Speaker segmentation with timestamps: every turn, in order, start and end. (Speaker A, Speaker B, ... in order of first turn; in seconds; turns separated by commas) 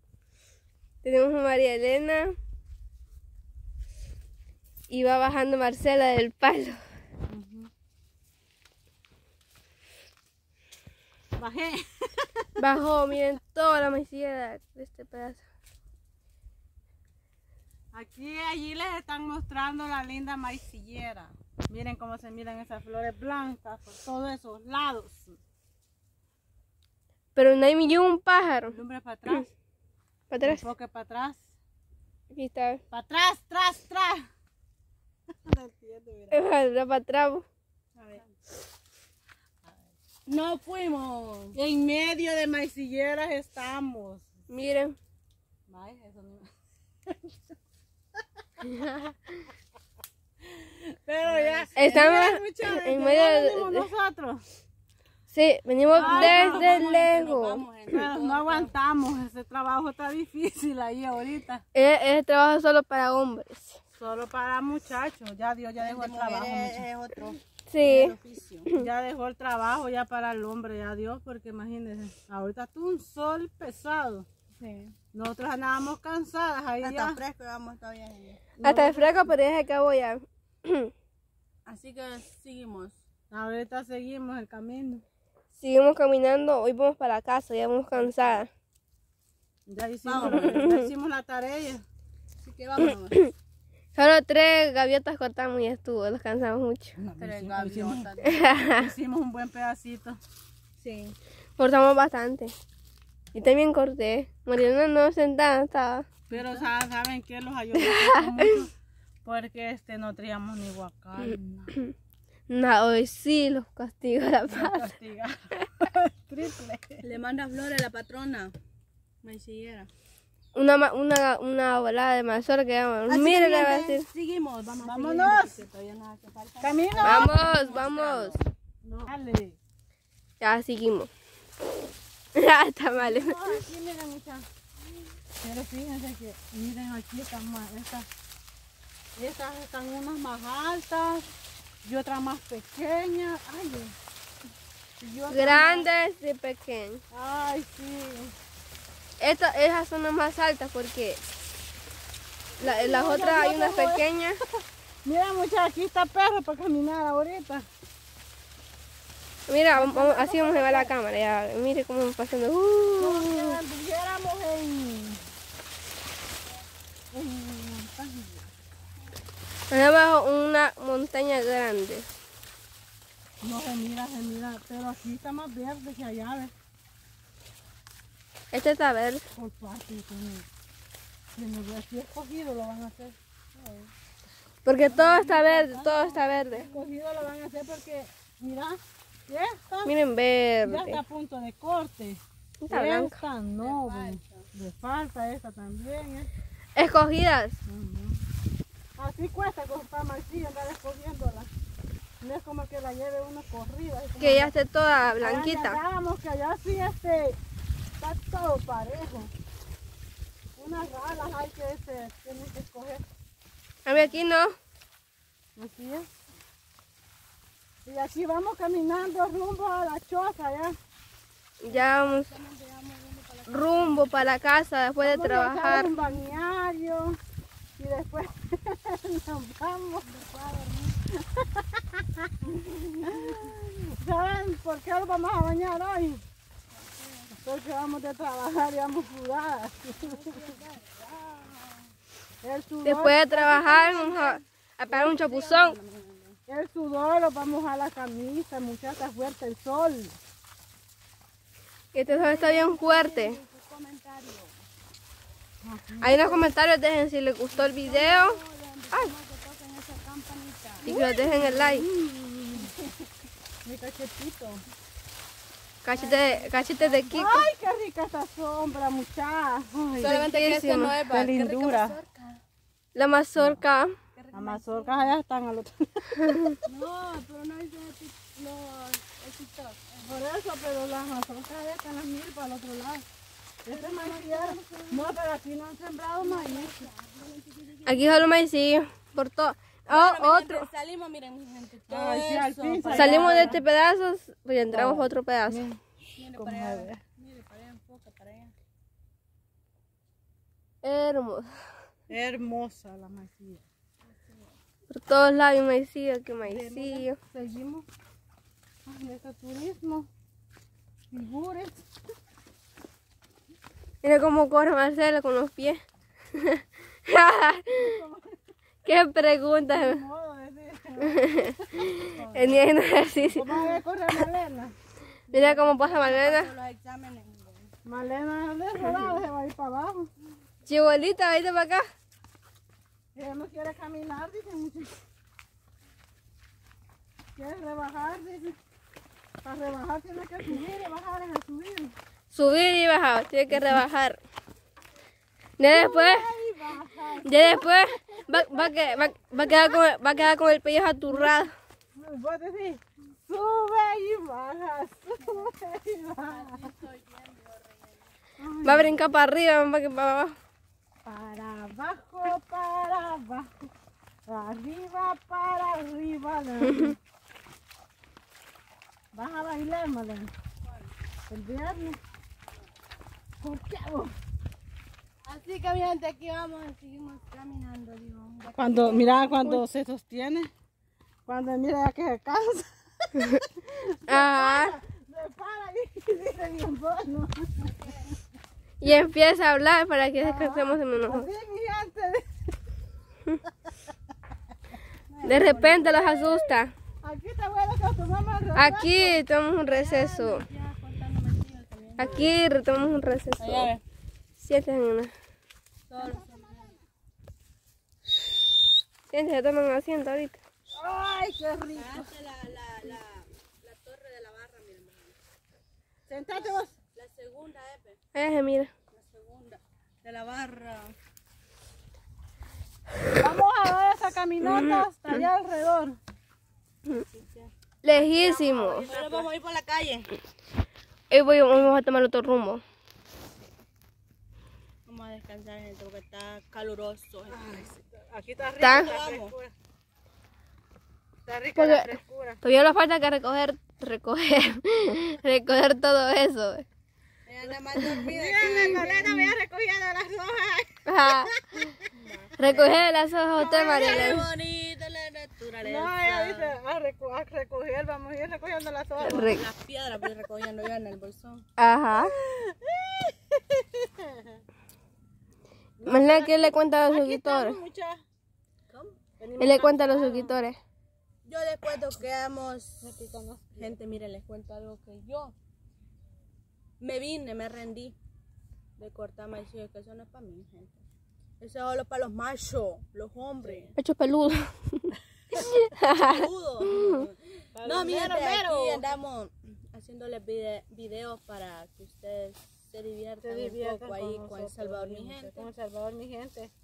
Speaker A: 1.0-2.3, Speaker A: 4.9-6.8, Speaker B: 7.3-7.7, Speaker B: 11.4-12.6, Speaker A: 12.6-15.4, Speaker B: 17.9-25.4, Speaker A: 27.4-28.8, Speaker B: 28.7-29.5, Speaker A: 30.3-30.6, Speaker B: 30.4-31.4, Speaker A: 32.3-32.8, Speaker B: 32.9-34.3, Speaker B: 35.4-36.5, Speaker A: 36.3-37.5, Speaker C: 38.0-38.2, Speaker C: 40.3-41.6, Speaker B: 41.5-44.3, Speaker A: 44.5-45.0, Speaker B: 45.7-46.5, Speaker B: 47.1-47.5, Speaker B: 50.5-54.5, Speaker C: 51.2-52.3, Speaker A: 51.8-53.9, Speaker A: 55.3-57.6, Speaker C: 55.9-58.7, Speaker B: 55.9-56.9, Speaker B: 57.9-61.6, Speaker A: 61.8-63.8, Speaker B: 64.0-66.9, Speaker C: 65.8-68.7, Speaker A: 67.7-68.1, Speaker B: 68.7-74.3, Speaker C: 74.6-75.0, Speaker B: 75.1-77.2, Speaker C: 76.8-78.4, Speaker B: 78.6-79.3, Speaker A: 78.6-80.9, Speaker C: 81.7-83.0, Speaker B: 83.3-85.0, Speaker A: 85.6-88.5, Speaker B: 88.0-88.3, Speaker B: 89.7-91.8, Speaker C: 90.0-90.8, Speaker C: 92.4-93.3, Speaker A: 94.0-97.0, Speaker B: 97.0-100.2, Speaker C: 97.2-98.4, Speaker A: 98.2-98.9, Speaker C: 100.8-101.2, Speaker A: 101.6-102.5, Speaker A: 103.3-106.1, Speaker B: 106.3-108.7, Speaker A: 107.8-108.5, Speaker B: 109.2-111.7, Speaker A: 112.5-114.8, Speaker B: 114.5-117.1, Speaker C: 117.0-118.6, Speaker C: 119.2-119.9, Speaker A: 120.5-124.0, Speaker C: 123.1-128.4, Speaker B: 124.8-125.6, Speaker B: 126.6-127.5, Speaker A: 127.0-128.4, Speaker B: 128.8-129.6, Speaker A: 130.4-131.1, Speaker A: 132.3-133.4, Speaker B: 132.9-134.5, Speaker B: 135.4-138.1, Speaker B: 139.2-141.2, Speaker B: 141.8-143.9, Speaker B: 145.0-145.9, Speaker A: 145.3-147.0, Speaker B: 147.1-148.3, Speaker A: 149.2-151.2, Speaker B: 152.6-154.1, Speaker A: 152.6-154.4, Speaker B: 155.1-157.7, Speaker A: 159.5-163.6, Speaker B: 159.7-160.9, Speaker B: 163.0-165.2, Speaker B: 167.1-168.5, Speaker A: 169.7-172.1, Speaker B: 173.4-176.5, Speaker A: 178.5-179.2, Speaker B: 179.3-180.5, Speaker B: 181.3-183.2, Speaker C: 183.6-183.9, Speaker A: 184.7-186.7, Speaker B: 184.8-189.9, Speaker A: 189.9-191.0, Speaker B: 190.7-196.3, Speaker A: 192.6-193.2, Speaker C: 193.6-194.5, Speaker A: 196.8-197.6, Speaker B: 197.7-198.2, Speaker B: 199.0-201.5, Speaker B: 202.2-204.5, Speaker A: 204.2-205.8, Speaker B: 205.2-207.4, Speaker B: 208.0-209.3, Speaker B: 210.6-213.0, Speaker A: 213.8-214.6, Speaker B: 215.6-216.1, Speaker B: 217.9-220.8, Speaker A: 221.6-222.3, Speaker C: 221.7-224.1, Speaker A: 223.5-225.9, Speaker B: 225.0-227.2, Speaker C: 225.9-226.2, Speaker B: 227.8-230.1, Speaker C: 230.0-231.0, Speaker B: 231.2-232.2, Speaker C: 232.5-233.5, Speaker B: 233.1-236.2, Speaker C: 236.7-237.3, Speaker B: 237.4-240.4, Speaker C: 240.0-241.9, Speaker B: 242.4-244.4, Speaker A: 242.8-245.8, Speaker C: 244.9-246.4, Speaker B: 246.5-250.2, Speaker A: 251.9-253.4, Speaker C: 252.1-254.6, Speaker B: 255.6-256.5, Speaker A: 256.0-258.4, Speaker C: 257.5-260.9, Speaker B: 260.8-262.7, Speaker A: 260.9-261.9, Speaker C: 262.6-263.1, Speaker B: 263.6-264.6, Speaker A: 265.8-267.5, Speaker C: 265.9-267.3, Speaker B: 267.1-270.3, Speaker C: 270.0-272.4, Speaker A: 270.0-271.0, Speaker B: 271.1-272.0, Speaker A: 272.9-273.9, Speaker B: 273.4-273.6, Speaker C: 274.1-275.1, Speaker B: 274.3-276.6, Speaker A: 276.3-276.5, Speaker C: 276.6-280.1, Speaker B: 280.0-283.0, Speaker B: 283.6-286.9, Speaker C: 283.7-285.1, Speaker C: 286.2-288.3, Speaker A: 287.9-290.7, Speaker C: 289.9-293.6, Speaker B: 291.9-293.6, Speaker A: 292.9-295.6, Speaker B: 294.7-297.0, Speaker C: 296.1-298.5, Speaker A: 300.8-301.5, Speaker B: 302.1-303.6, Speaker C: 304.1-304.6, Speaker A: 304.9-307.2, Speaker B: 306.4-307.9, Speaker B: 308.9-310.1, Speaker B: 311.1-311.8, Speaker A: 314.0-315.8, Speaker A: 316.3-317.8, Speaker B: 317.7-318.4, Speaker A: 318.9-320.0, Speaker B: 319.6-322.6, Speaker A: 321.1-323.5, Speaker B: 323.3-324.8, Speaker C: 325.3-327.7, Speaker A: 325.3-326.5, Speaker B: 327.9-330.1, Speaker A: 330.7-331.9, Speaker B: 333.1-334.9, Speaker B: 337.4-338.6, Speaker B: 339.4-341.9, Speaker A: 342.3-344.2, Speaker B: 343.5-343.9, Speaker A: 345.6-346.3, Speaker B: 345.7-350.3, Speaker A: 347.3-351.5, Speaker B: 351.1-351.4, Speaker B: 351.9-356.7, Speaker C: 355.2-355.5, Speaker C: 356.2-358.1, Speaker B: 358.4-359.1, Speaker A: 358.6-360.4, Speaker B: 361.1-363.7, Speaker B: 364.3-367.0, Speaker B: 369.1-370.3, Speaker C: 370.6-370.9, Speaker B: 371.3-372.0, Speaker B: 373.4-374.1, Speaker C: 375.2-379.4, Speaker B: 378.6-380.5, Speaker B: 381.3-387.9, Speaker A: 384.1-384.8, Speaker A: 388.8-391.3, Speaker B: 390.2-392.5, Speaker C: 395.1-396.2, Speaker A: 395.2-396.7, Speaker B: 397.0-399.2, Speaker A: 398.6-400.4, Speaker C: 399.6-402.3, Speaker A: 402.0-403.7, Speaker B: 402.0-402.3, Speaker C: 403.4-403.8, Speaker A: 404.4-405.1, Speaker C: 405.9-406.8, Speaker A: 409.1-410.4, Speaker B: 410.7-412.1, Speaker C: 411.8-415.2, Speaker B: 416.1-416.7, Speaker C: 416.3-418.0, Speaker A: 418.1-418.7, Speaker C: 418.9-420.9, Speaker B: 423.2-426.0, Speaker A: 424.5-424.8, Speaker C: 426.9-427.5, Speaker A: 427.8-428.9, Speaker B: 428.0-429.3, Speaker C: 428.6-430.1, Speaker A: 431.1-432.6, Speaker C: 434.9-437.7, Speaker B: 437.3-439.5, Speaker A: 438.6-438.9, Speaker C: 438.6-439.3, Speaker B: 441.3-442.4, Speaker A: 441.6-446.6, Speaker C: 447.3-449.2, Speaker B: 447.9-451.9, Speaker A: 450.9-451.3, Speaker C: 452.0-452.8, Speaker A: 452.4-454.3, Speaker B: 453.4-454.2, Speaker C: 453.5-456.6, Speaker B: 455.6-459.4, Speaker C: 459.0-461.4, Speaker A: 459.0-459.4, Speaker A: 461.6-462.1, Speaker B: 461.9-464.4, Speaker B: 465.8-468.0, Speaker A: 465.9-467.6, Speaker C: 468.7-469.0, Speaker B: 469.2-470.3, Speaker A: 469.4-470.6, Speaker C: 471.2-472.9, Speaker B: 472.8-473.8, Speaker C: 473.6-475.3, Speaker C: 476.8-478.0, Speaker C: 478.8-480.8, Speaker C: 481.4-483.8, Speaker B: 483.4-483.7, Speaker A: 483.8-486.9, Speaker C: 485.9-495.5, Speaker B: 487.6-489.0, Speaker B: 493.2-496.5